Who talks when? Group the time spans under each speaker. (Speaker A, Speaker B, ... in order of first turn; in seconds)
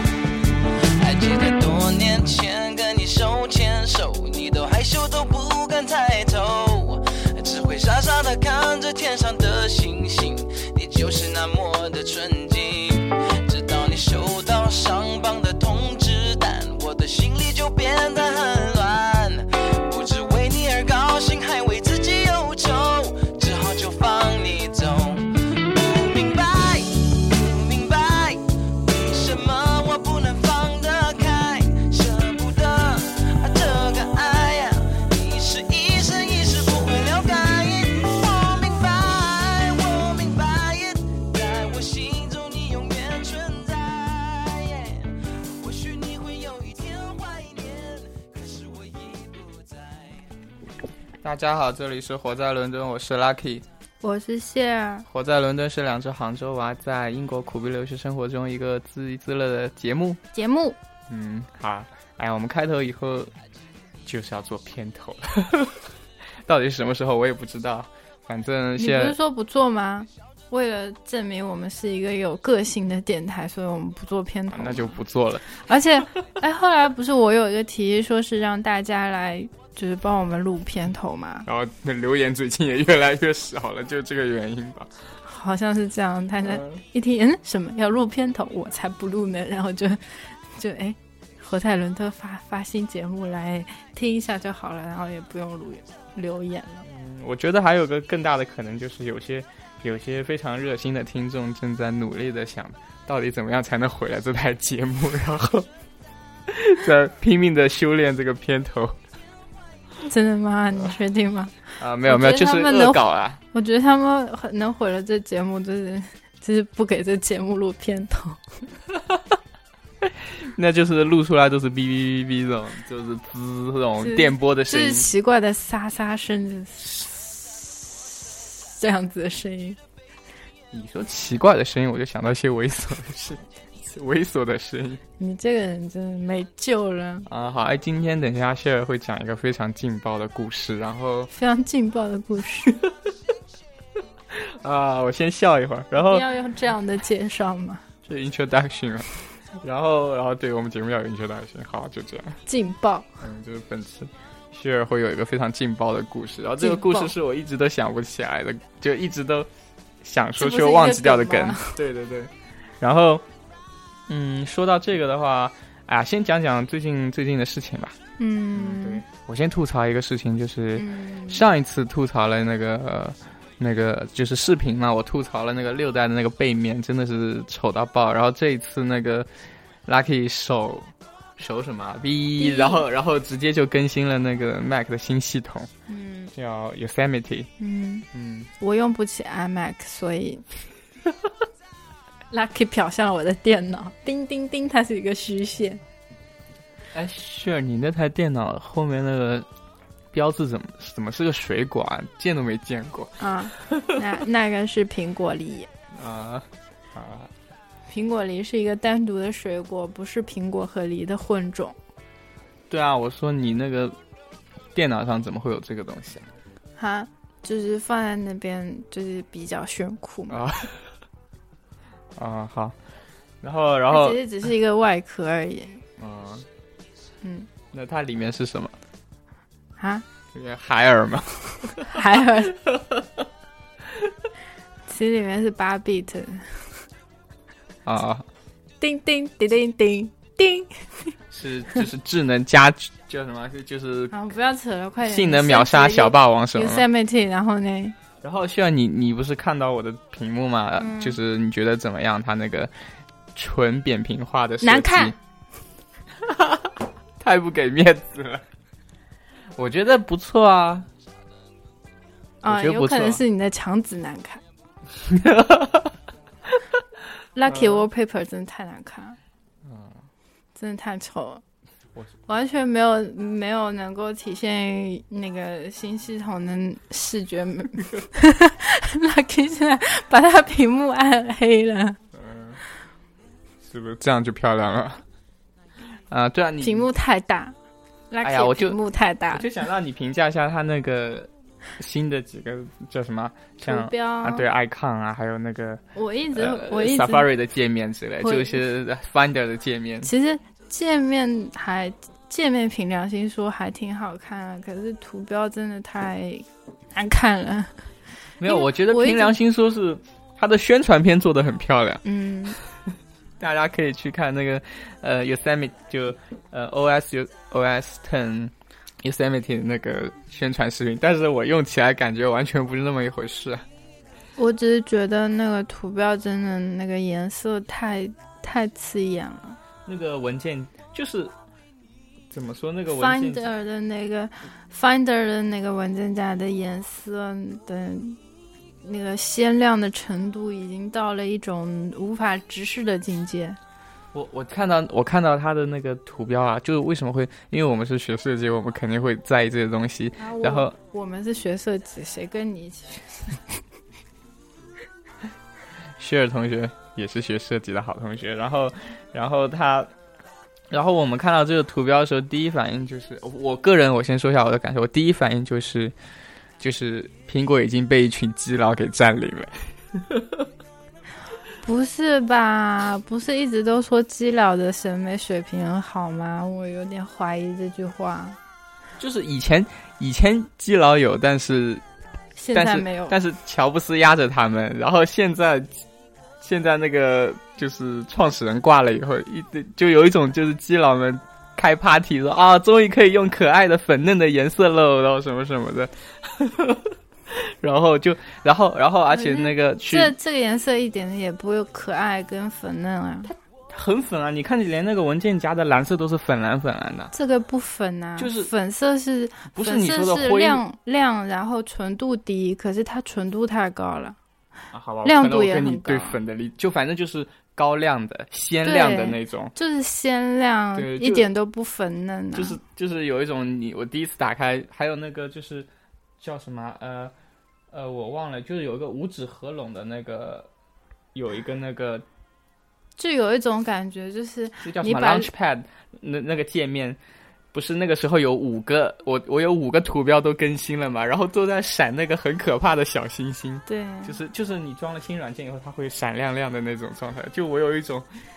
Speaker A: 0.9-50.2
Speaker B: 51.2-53.7, 55.1-60.2, 61.1-63.3, 64.0-65.9, 66.5-69.2, 74.5-75.5, 81.5-84.9, 86.5-86.8, 96.9-105.7, 106.5-109.0, 111.8-113.4, 119.0-119.2, 120.0-125.1, 130.7-135.0, 137.3-141.3, 144.3-146.3, 148.0-152.4, 153.2-159.5, 160.0-163.2, 164.1-168.0, 168.5-179.3, 179.9-185.7, 186.3-187.5, 188.1-188.5, 196.9-199.5, 200.1-204.0, 205.9-207.3, 212.7-214.0, 214.7-216.3, 220.3-220.8, 222.2-222.8, 223.4-224.2, 226.0-226.5, 227.7-228.8, 230.3-233.3, 233.9-234.1, 237.9-238.3, 241.3-244.2, 245.0-246.9, 248.2-252.7, 253.3-255.2, 256.2-258.4, 259.6-260.9, 262.4-263.2, 265.0-266.0, 267.5-267.9, 269.6-270.0, 282.1-282.6, 283.6-285.0, 286.1-286.9, 288.2-288.8, 289.3-300.1, 308.4-312.0, 313.4-323.6, 329.9-331.3, 332.3-333.5, 344.1-350.7, 356.0-359.9, 360.7-365.9, 366.6-370.5, 379.0-381.8, 382.5-385.8, 386.4-400.1, 403.3-407.1, 408.2-408.5, 409.5-410.6, 414.7-419.5, 420.8-421.3, 422.4-425.7, 426.2-427.1, 427.7-430.5, 431.1-432.1, 434.6-437.0, 437.5-448.1
Speaker C: 54.0-55.1, 60.3-60.8, 68.8-75.0, 75.5-81.5, 85.2-96.9, 110.1-118.4, 124.0-129.8, 135.2-137.3, 141.3-142.8, 145.9-147.8, 152.5-153.1, 156.6-157.1, 160.4-161.8, 168.2-169.0, 170.8-171.4, 182.4-182.8, 185.9-186.3, 187.6-188.1, 188.6-190.4, 192.3-195.8, 203.2-205.7, 207.9-211.8, 216.8-220.4, 223.9-225.8, 227.2-227.5, 229.8-230.1, 231.7-232.6, 234.9-236.8, 238.8-241.1, 244.1-248.0, 250.8-251.2, 254.6-255.2, 262.4-264.4, 267.4-269.2, 270.6-271.4, 272.3-282.0, 286.6-287.6, 288.1-289.4, 293.6-294.5, 295.9-297.3, 298.2-298.6, 300.0-307.7, 308.5-309.3, 312.0-312.6, 324.4-329.6, 332.9-338.2, 338.8-343.6, 350.2-353.6, 371.6-378.4, 382.4-383.2, 399.1-403.3, 407.1-414.2, 415.1-416.2, 418.6-422.6, 433.0-435.3, 443.7-444.2